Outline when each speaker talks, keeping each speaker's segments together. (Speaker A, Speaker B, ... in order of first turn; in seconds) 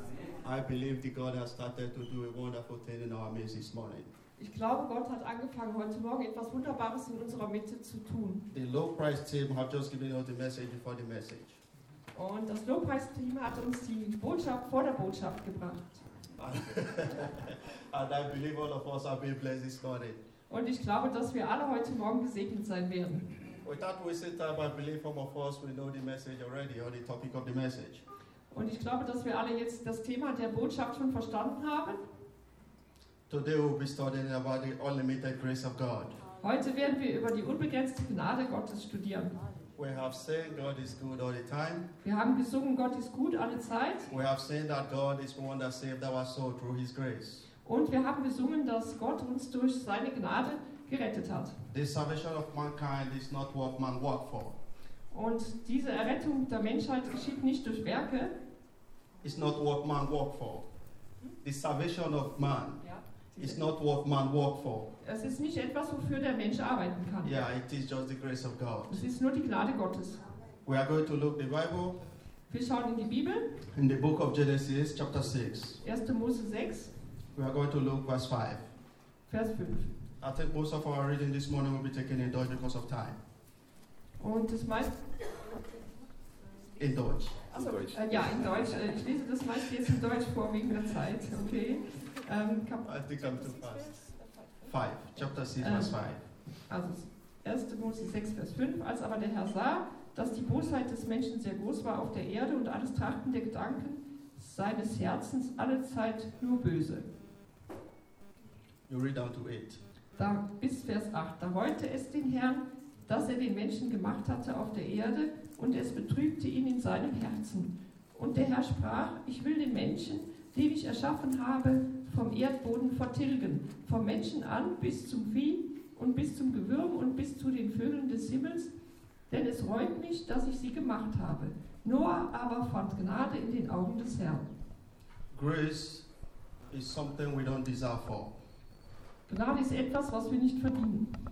Speaker A: 0.4-4.1, 8.5-11.6, 16.4-20.2, 23.6-28.0, 33.3-36.2, 39.8-41.9, 44.1-47.5, 51.7-54.5, 59.2-60.6, 61.4-62.8, 63.4-64.9, 67.2-69.0, 70.6-72.0, 73.7-75.8, 77.3-78.6, 80.2-83.2, 86.8-87.9, 92.8-94.0, 94.7-96.2, 108.9-109.8, 135.3-136.1, 136.7-138.3
Speaker B: 4.4-8.5, 12.1-16.0, 20.5-23.3, 28.5-32.0, 36.4-39.3, 42.0-44.1, 47.6-51.6, 55.1-58.3, 62.8-63.6, 65.0-67.4, 68.9-70.2, 72.5-73.5, 75.8-76.9, 79.3-79.9, 84.2-85.5, 87.5-94.7, 95.6-95.9, 96.7-107.1, 110.2-128.7, 129.3-134.5, 139.3-141.2